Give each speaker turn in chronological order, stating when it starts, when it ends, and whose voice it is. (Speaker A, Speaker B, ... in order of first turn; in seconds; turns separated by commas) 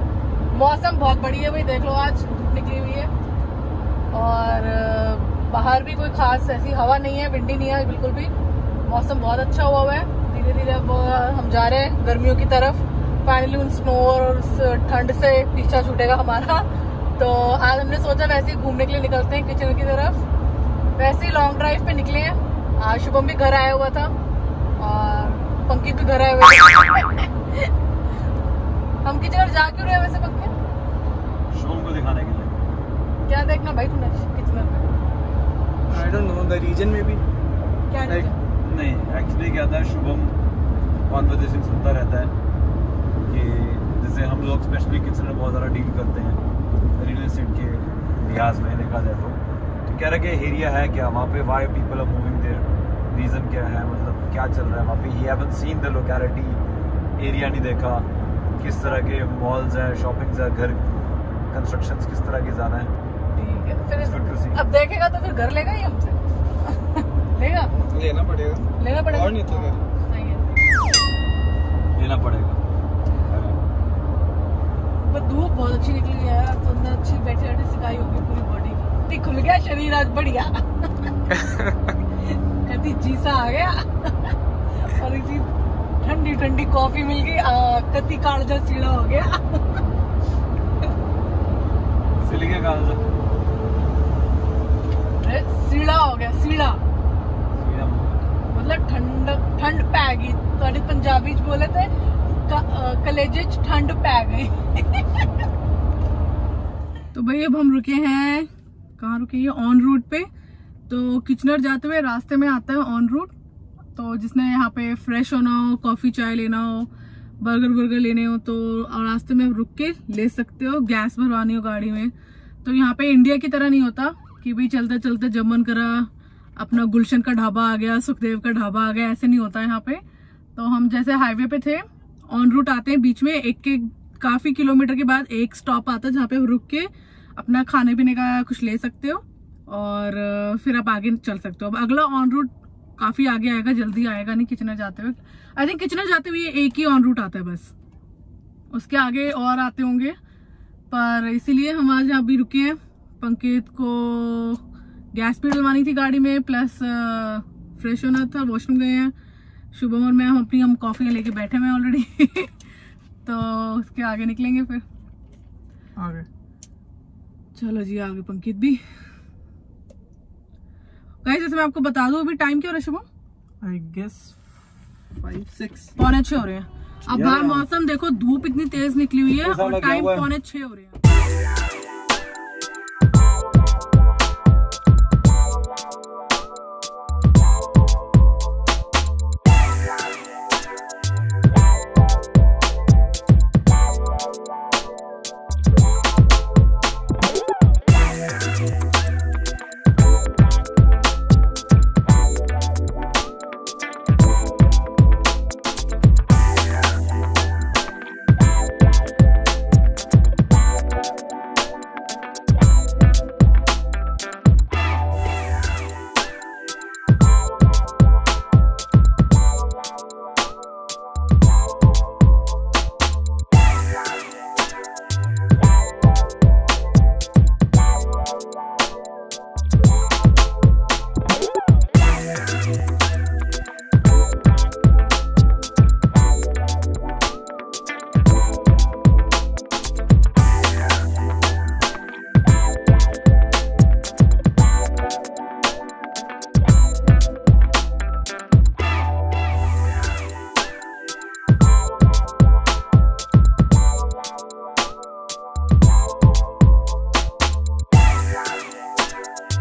Speaker A: 0.5-3.1, Speaker A: 4.1-8.3, Speaker A: 8.8-20.2, Speaker A: 21.0-24.1, Speaker A: 24.8-27.7, Speaker A: 29.0-30.5, Speaker B: 31.5-32.5, Speaker A: 33.2-35.0, Speaker C: 35.9-37.2, Speaker A: 37.9-38.4, Speaker C: 38.0-38.3, Speaker B: 38.6-40.4, Speaker B: 41.1-42.3, Speaker B: 43.2-46.4, Speaker B: 47.0-56.6, Speaker B: 57.2-60.9, Speaker B: 61.5-62.9, Speaker A: 63.3-67.8, Speaker B: 64.0-64.6, Speaker C: 67.8-69.8, Speaker A: 68.8-70.6, Speaker B: 71.9-72.6, Speaker B: 73.3-73.6, Speaker A: 75.0-80.6, Speaker A: 82.6-85.5, Speaker A: 86.0-89.8, Speaker B: 92.2-93.0, Speaker A: 95.2-96.8, Speaker B: 97.5-98.2, Speaker A: 98.5-101.9, Speaker A: 102.5-105.2, Speaker A: 107.1-110.3, Speaker A: 110.9-113.3, Speaker A: 113.9-122.1, Speaker A: 122.6-130.0, Speaker A: 130.6-147.7, Speaker A: 148.7-150.2, Speaker A: 150.9-154.6, Speaker A: 155.1-159.1, Speaker A: 159.7-162.6, Speaker A: 163.2-164.8, Speaker C: 166.0-166.3, Speaker A: 167.5-168.8, Speaker A: 171.2-173.1, Speaker C: 173.6-174.3, Speaker C: 175.1-176.0, Speaker A: 176.0-181.0, Speaker B: 177.1-177.7, Speaker B: 179.4-180.3